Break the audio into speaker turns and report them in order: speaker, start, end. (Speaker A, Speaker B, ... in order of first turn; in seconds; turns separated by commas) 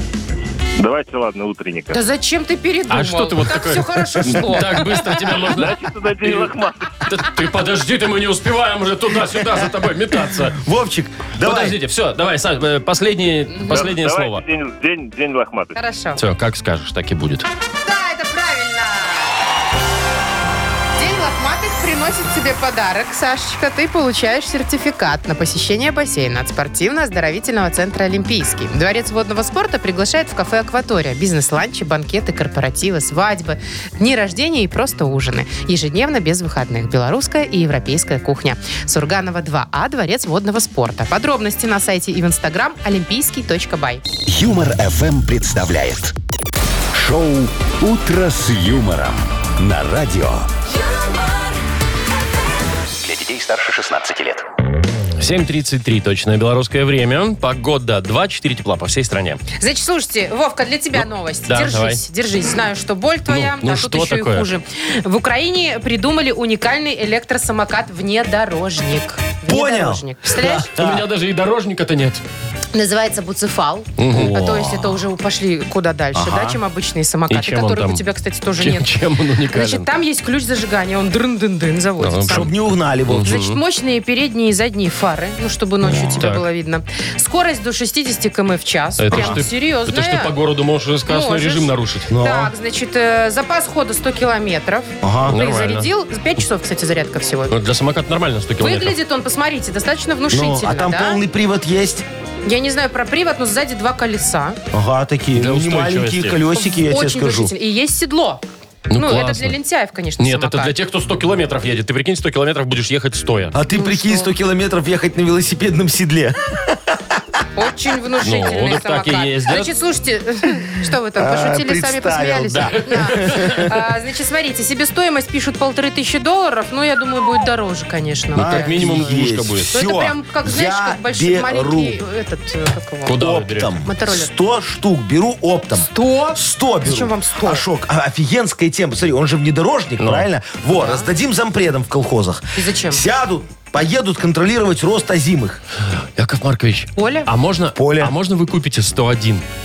Speaker A: 0.8-2.0, Speaker B: 1.9-5.1, Speaker C: 2.9-10.6, Speaker A: 5.3-7.1, Speaker D: 10.6-11.8, Speaker C: 11.4-14.4, Speaker B: 13.5-13.9, Speaker A: 13.7-15.8, Speaker B: 15.8-16.2, Speaker C: 16.2-17.5, Speaker B: 17.8-19.3, Speaker B: 21.0-44.0, Speaker E: 44.3-46.1, Speaker E: 46.9-50.5, Speaker E: 53.0-54.4, Speaker C: 55.2-59.4, Speaker B: 59.6-70.7, Speaker C: 61.5-62.0, Speaker C: 63.3-64.5, Speaker D: 69.5-71.1, Speaker C: 70.8-72.2, Speaker B: 72.7-78.9, Speaker C: 74.0-74.3, Speaker D: 74.1-75.0, Speaker D: 76.1-76.6, Speaker C: 77.3-78.0, Speaker C: 78.6-79.9, Speaker B: 79.5-82.5, Speaker C: 82.0-82.5, Speaker D: 82.3-83.4, Speaker C: 83.1-83.6, Speaker B: 83.2-90.3, Speaker D: 85.8-86.2, Speaker C: 86.0-86.5, Speaker C: 89.0-92.1, Speaker D: 89.1-89.4, Speaker B: 91.1-97.5, Speaker D: 92.1-92.5, Speaker D: 95.0-95.4, Speaker C: 95.3-95.9, Speaker C: 97.5-98.9, Speaker B: 98.6-101.2, Speaker D: 100.3-102.0, Speaker B: 102.5-104.6, Speaker D: 104.7-107.5, Speaker C: 105.4-106.4, Speaker B: 106.6-110.7, Speaker C: 108.9-109.6, Speaker C: 110.2-113.5, Speaker D: 113.5-117.2, Speaker B: 113.7-114.3, Speaker B: 117.5-129.1, Speaker C: 118.2-119.7, Speaker D: 121.2-123.8, Speaker C: 122.5-123.7, Speaker C: 128.3-129.7, Speaker D: 128.4-132.0, Speaker B: 129.7-133.2, Speaker C: 133.1-133.7, Speaker D: 133.2-145.6, Speaker B: 133.8-134.3, Speaker B: 135.8-137.7, Speaker C: 140.0-140.3, Speaker B: 140.7-141.1, Speaker B: 142.6-143.1, Speaker C: 146.2-149.4, Speaker B: 147.0-147.3, Speaker D: 147.8-148.1